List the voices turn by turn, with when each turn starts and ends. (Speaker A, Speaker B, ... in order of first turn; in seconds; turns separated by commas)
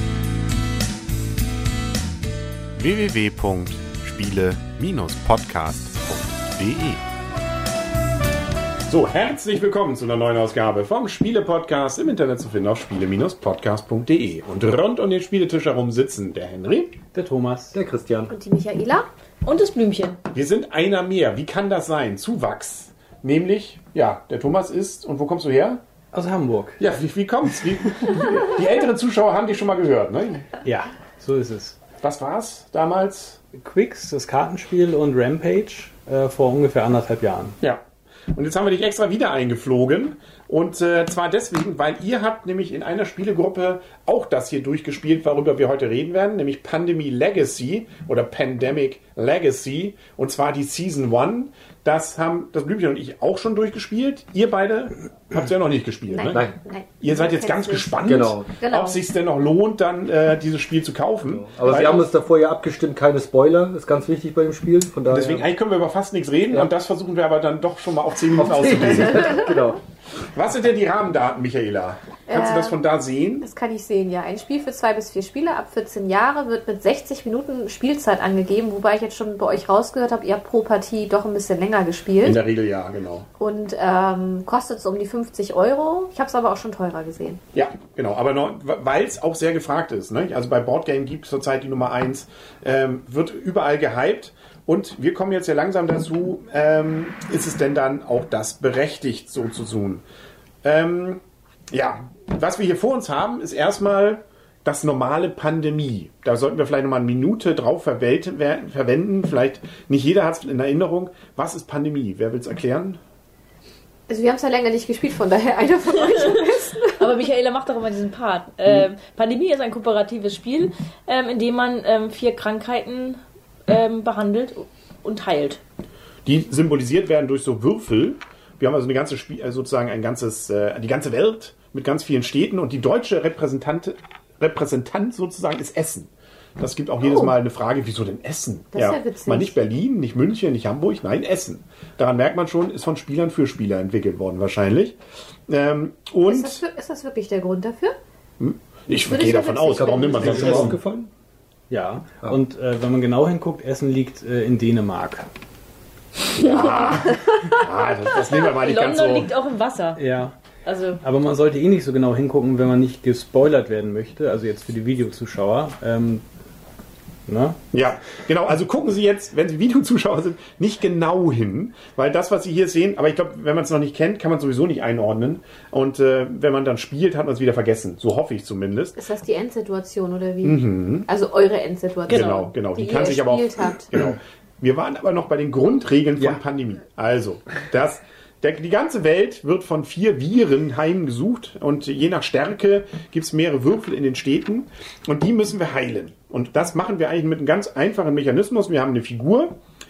Speaker A: 2.8-7.0, Speaker A: 8.9-17.0, Speaker B: 17.1-17.8, Speaker C: 17.7-18.3, Speaker D: 18.3-19.1, Speaker E: 19.4-20.2, Speaker A: 20.3-25.8, Speaker B: 26.1-26.8, Speaker A: 26.8-30.5, Speaker B: 30.6-31.8, Speaker A: 32.0-33.4, Speaker B: 33.5-37.6, Speaker A: 37.6-56.4, Speaker D: 56.1-58.0, Speaker C: 56.3-56.6, Speaker A: 57.0-62.1, Speaker C: 58.0-58.6, Speaker D: 58.6-59.0, Speaker C: 61.3-65.5, Speaker A: 65.1-69.4, Speaker C: 68.3-69.8, Speaker A: 70.3-73.5, Speaker D: 72.3-72.8, Speaker D: 73.4-82.4, Speaker A: 82.2-83.3, Speaker D: 83.4-87.4, Speaker A: 87.5-100.0, Speaker A: 100.6-113.0, Speaker D: 114.1-117.0, Speaker E: 116.0-116.3, Speaker E: 117.0-125.6, Speaker A: 126.2-146.6, Speaker D: 138.7-139.5, Speaker D: 146.3-147.9, Speaker A: 148.4-150.8, Speaker D: 149.0-150.6, Speaker C: 149.7-151.1, Speaker B: 150.2-150.7, Speaker B: 151.7-155.3, Speaker A: 156.3-159.3, Speaker E: 158.3-160.0, Speaker B: 159.9-160.3, Speaker E: 160.7-161.0, Speaker B: 161.0-166.2, Speaker B: 167.2-167.6, Speaker A: 167.7-179.0, Speaker D: 179.0-183.9, Speaker A: 180.4-181.1, Speaker B: 182.1-182.4, Speaker A: 182.1-199.5